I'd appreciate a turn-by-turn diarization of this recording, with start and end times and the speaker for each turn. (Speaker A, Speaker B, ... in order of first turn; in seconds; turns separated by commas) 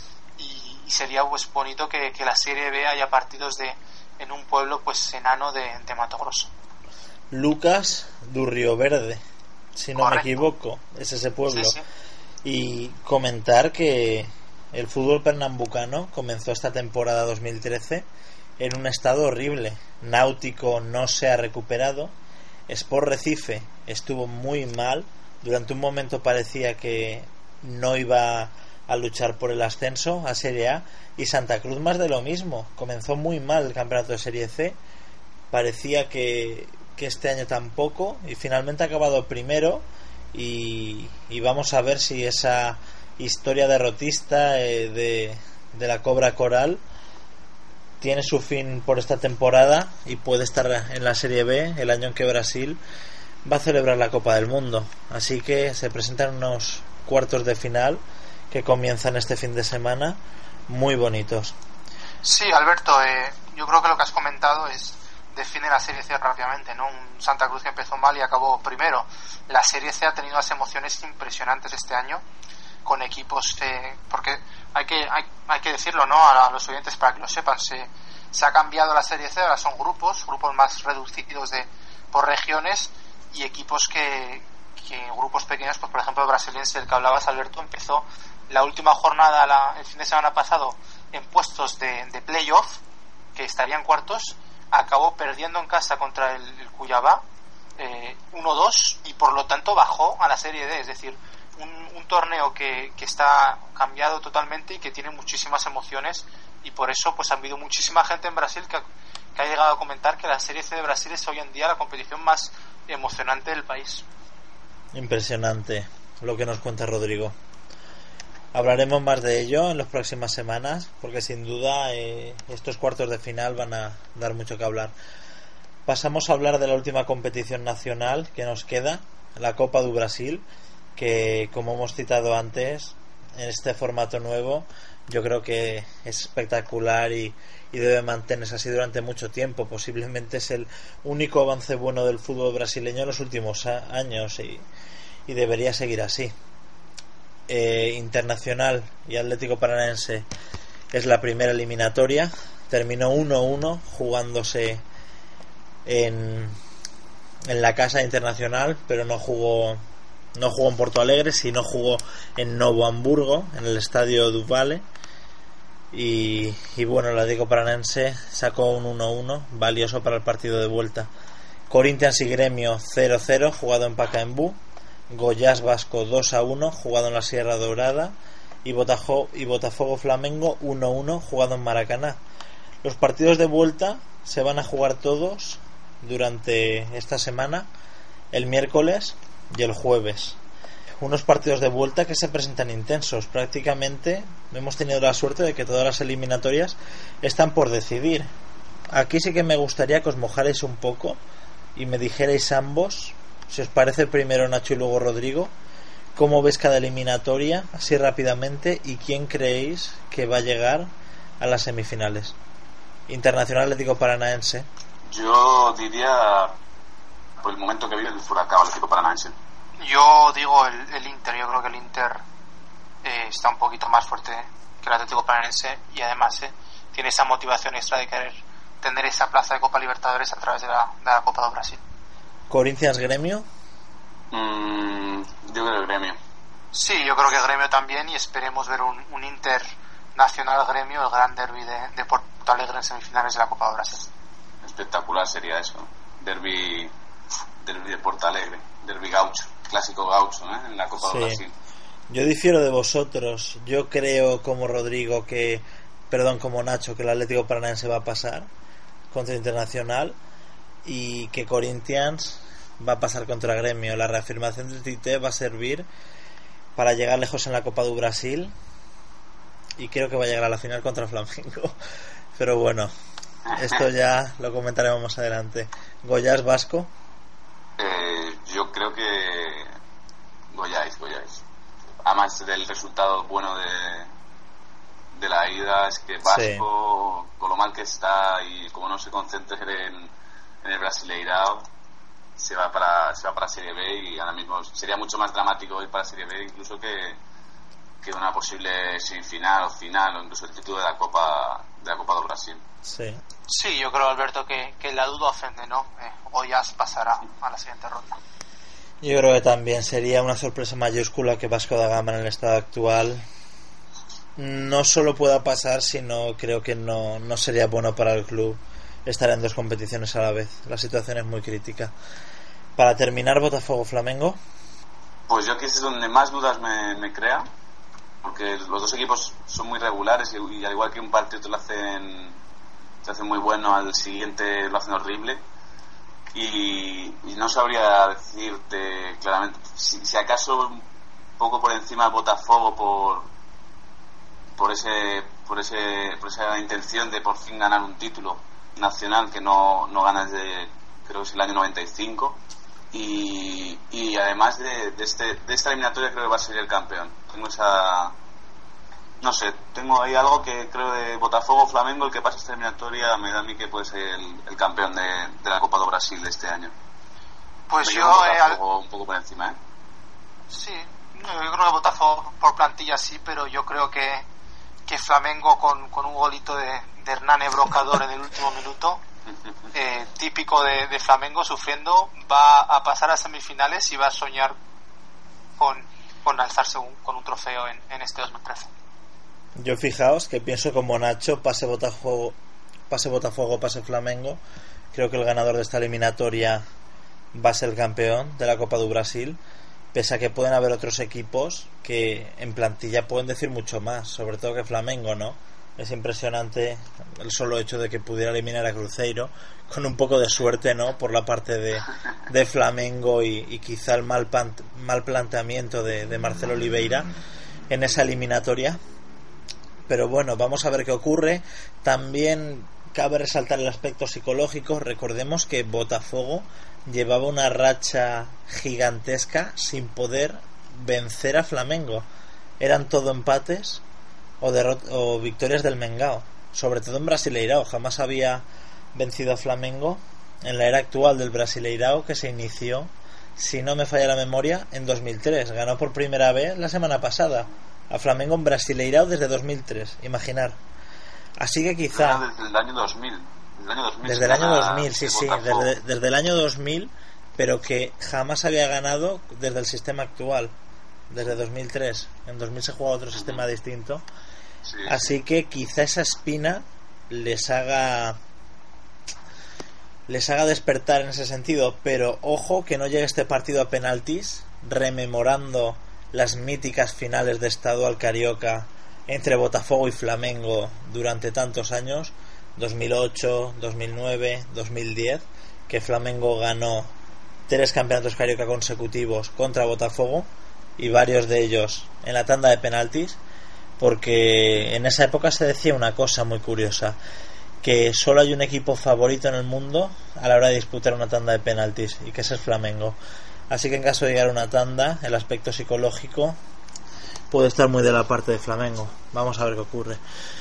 Speaker A: 0.4-6.5, Speaker B: 7.3-9.2, Speaker B: 9.8-11.8, Speaker A: 10.0-10.4, Speaker A: 11.5-11.8, Speaker B: 12.4-18.1, Speaker B: 18.6-22.1, Speaker B: 22.7-34.8, Speaker B: 35.5-46.8, Speaker B: 48.0-52.8, Speaker B: 53.5-61.5, Speaker A: 62.2-72.2, Speaker A: 72.8-92.8, Speaker A: 93.3-97.2, Speaker A: 97.8-108.8, Speaker A: 109.3-114.0, Speaker B: 114.9-117.3, Speaker B: 118.5-125.0, Speaker B: 125.9-130.4, Speaker B: 131.0-144.7, Speaker B: 145.3-146.3, Speaker B: 147.5-150.3, Speaker B: 150.9-154.8, Speaker B: 155.8-156.6, Speaker B: 157.5-159.8, Speaker B: 160.4-164.8, Speaker B: 165.9-171.1, Speaker B: 171.7-174.6, Speaker B: 175.1-182.2, Speaker B: 182.8-187.7, Speaker B: 188.3-190.4, Speaker B: 191.0-198.3, Speaker B: 198.9-201.2, Speaker B: 201.8-205.5, Speaker B: 206.2-212.3, Speaker B: 213.1-214.7, Speaker C: 215.1-216.6, Speaker C: 217.4-219.3, Speaker A: 219.8-222.2, Speaker A: 223.0-231.8, Speaker B: 232.5-233.5, Speaker C: 234.3-236.2, Speaker A: 236.7-244.1, Speaker C: 244.6-246.9, Speaker C: 247.6-251.5, Speaker B: 251.0-251.4, Speaker B: 252.1-258.5, Speaker B: 259.1-260.2, Speaker B: 260.9-265.9, Speaker B: 266.8-268.5, Speaker B: 269.8-271.8, Speaker B: 272.4-272.9, Speaker C: 273.5-273.8, Speaker B: 273.5-276.9, Speaker C: 277.8-279.7, Speaker C: 280.5-281.4, Speaker C: 282.0-284.1, Speaker C: 285.1-290.1, Speaker B: 286.3-286.7, Speaker C: 290.6-291.6, Speaker C: 292.4-297.2, Speaker C: 298.0-302.6, Speaker B: 302.9-303.2, Speaker A: 303.5-308.2, Speaker B: 309.0-313.2, Speaker B: 314.4-321.9, Speaker B: 322.8-324.4, Speaker C: 325.3-327.5, Speaker C: 328.2-332.4, Speaker C: 333.0-335.4, Speaker C: 336.3-340.8, Speaker C: 341.4-343.3, Speaker C: 344.6-352.4, Speaker C: 352.9-358.1, Speaker C: 359.2-366.7, Speaker A: 367.7-368.6, Speaker C: 367.8-369.6, Speaker A: 370.5-374.3, Speaker A: 374.9-379.0, Speaker A: 379.7-384.6, Speaker A: 385.6-388.7, Speaker B: 389.6-392.4, Speaker B: 392.9-394.4, Speaker B: 394.9-396.6, Speaker B: 397.3-399.4, Speaker B: 399.9-417.1, Speaker B: 417.7-418.8, Speaker B: 419.9-432.1, Speaker B: 432.6-433.8, Speaker B: 434.4-450.6, Speaker B: 451.4-452.2, Speaker C: 451.9-455.7, Speaker B: 454.0-460.5, Speaker B: 461.1-464.0, Speaker C: 463.2-463.4, Speaker C: 464.6-465.1, Speaker B: 464.9-468.2, Speaker B: 470.1-486.9, Speaker B: 487.5-493.2, Speaker B: 493.8-497.0, Speaker B: 497.6-503.0, Speaker B: 503.5-506.4, Speaker B: 507.3-510.0